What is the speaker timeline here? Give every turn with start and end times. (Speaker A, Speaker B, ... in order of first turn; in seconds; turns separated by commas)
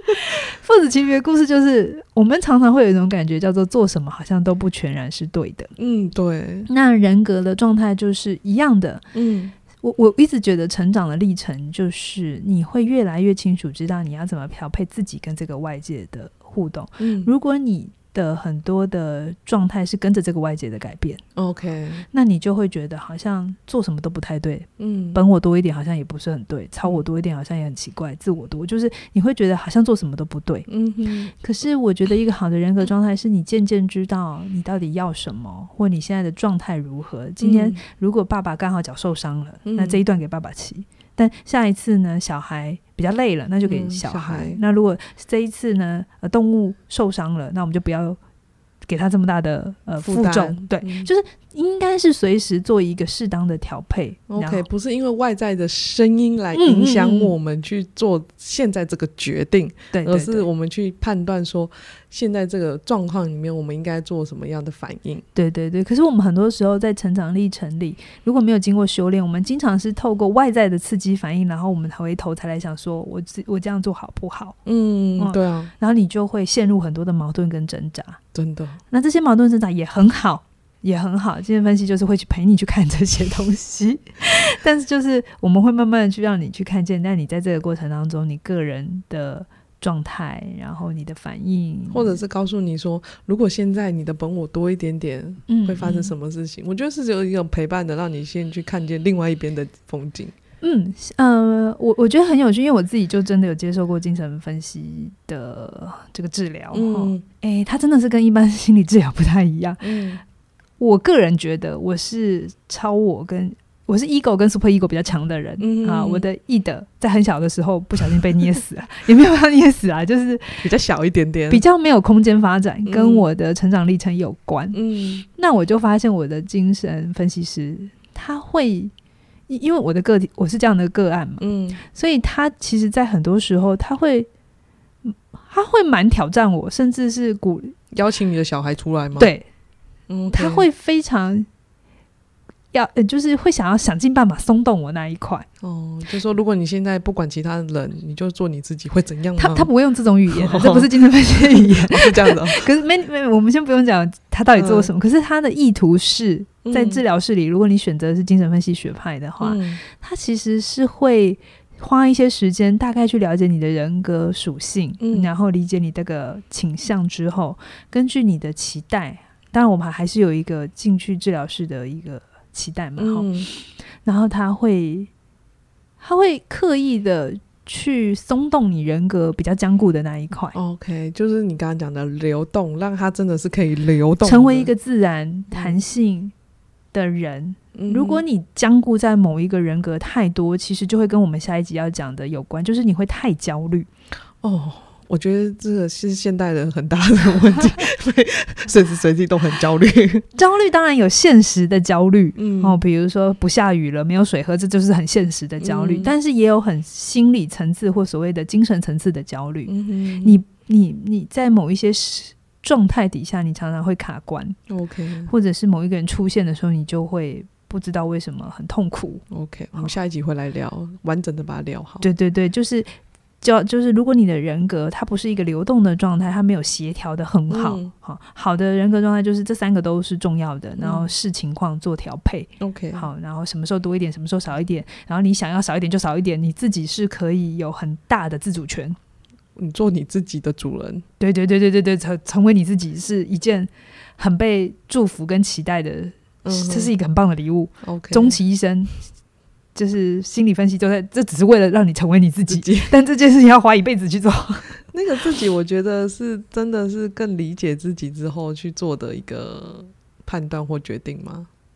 Speaker A: 0.3-5.7, Speaker B: 5.8-6.7, Speaker A: 6.7-9.0, Speaker B: 9.1-9.5, Speaker A: 9.8-21.2, Speaker B: 17.0-17.3, Speaker B: 21.4-22.0, Speaker A: 22.1-30.7, Speaker B: 24.8-25.2, Speaker B: 30.7-31.3, Speaker A: 31.4-48.2, Speaker B: 37.4-37.8, Speaker B: 39.6-40.0, Speaker B: 43.6-44.6, Speaker A: 48.9-54.6, Speaker B: 50.0-51.1, Speaker B: 54.3-65.2, Speaker A: 56.5-57.3, Speaker A: 59.9-60.4, Speaker A: 65.3-74.6, Speaker B: 74.7-75.7, Speaker A: 75.2-78.2, Speaker B: 78.3-78.8, Speaker A: 78.9-92.2, Speaker B: 91.9-100.3, Speaker A: 95.5-96.1, Speaker A: 100.6-109.8, Speaker B: 106.7-107.2, Speaker B: 109.8-110.2, Speaker A: 110.8-120.7, Speaker B: 115.6-116.2, Speaker B: 120.6-121.6, Speaker A: 121.5-124.8, Speaker B: 122.8-123.3, Speaker B: 124.7-125.2, Speaker A: 125.3-128.9, Speaker A: 129.5-134.3, Speaker B: 131.4-131.8, Speaker A: 135.1-137.7, Speaker B: 137.9-139.3, Speaker A: 139.2-139.4, Speaker B: 140.1-140.7, Speaker A: 140.3-141.5, Speaker A: 142.7-145.5, Speaker B: 145.6-149.7, Speaker A: 149.4-175.1, Speaker B: 150.3-152.7, Speaker B: 154.6-154.9, Speaker B: 156.6-157.0, Speaker B: 159.4-159.8, Speaker B: 165.0-165.3, Speaker B: 173.0-173.5, Speaker A: 176.0-180.6, Speaker B: 180.5-184.7, Speaker A: 184.2-186.3, Speaker B: 185.5-185.8, Speaker A: 186.9-193.9, Speaker B: 187.7-188.2, Speaker B: 194.4-200.2, Speaker A: 200.3-214.6, Speaker B: 202.4-202.8, Speaker B: 205.6-206.1, Speaker B: 209.7-210.4, Speaker B: 214.7-215.3, Speaker A: 215.3-219.2, Speaker B: 219.3-222.0, Speaker A: 222.0-222.9, Speaker A: 223.4-239.0, Speaker B: 227.5-227.9, Speaker B: 230.8-231.1, Speaker B: 232.6-233.1, Speaker B: 239.6-241.0, Speaker A: 241.2-248.9, Speaker B: 246.4-246.9, Speaker B: 247.8-248.4, Speaker A: 249.7-254.7, Speaker B: 252.5-252.9, Speaker B: 254.9-261.5